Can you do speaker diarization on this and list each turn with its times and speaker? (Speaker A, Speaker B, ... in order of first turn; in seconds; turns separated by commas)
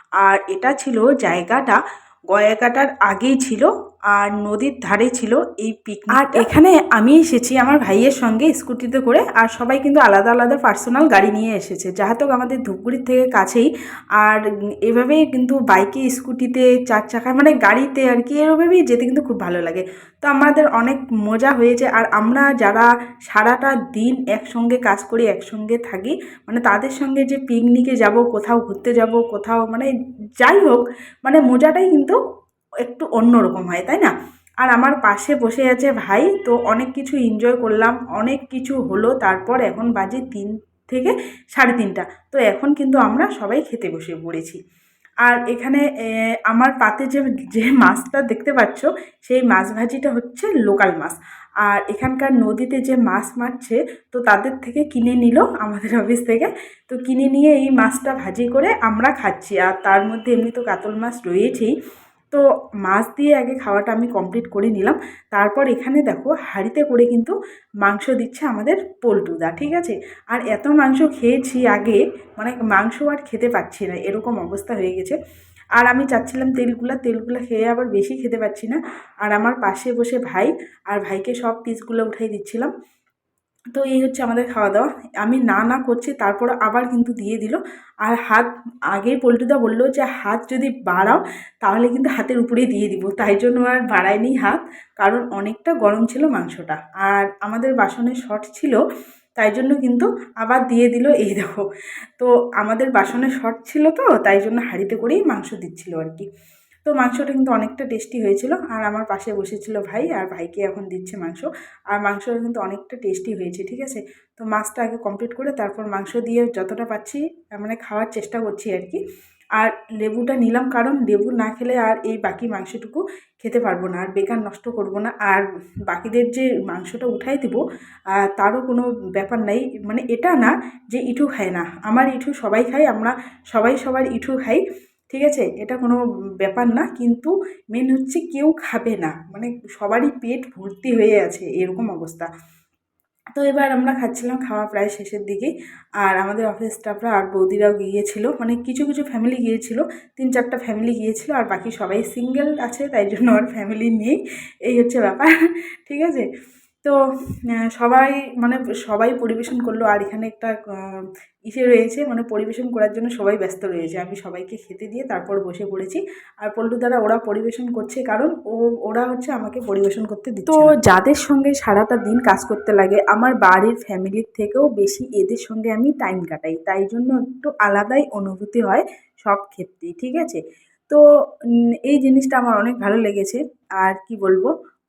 Speaker A: 0.2-1.8, Speaker A: 2.3-32.2, Speaker A: 32.8-44.6, Speaker A: 45.2-45.9, Speaker A: 46.5-61.7, Speaker A: 62.3-75.2, Speaker A: 75.8-82.7, Speaker A: 83.7-98.8, Speaker A: 99.4-101.6, Speaker A: 102.2-106.2, Speaker A: 106.8-119.0, Speaker A: 119.5-127.6, Speaker A: 128.3-142.3, Speaker A: 143.3-145.5, Speaker A: 146.0-155.3, Speaker A: 155.8-156.3, Speaker A: 157.5-181.0, Speaker A: 181.8-184.5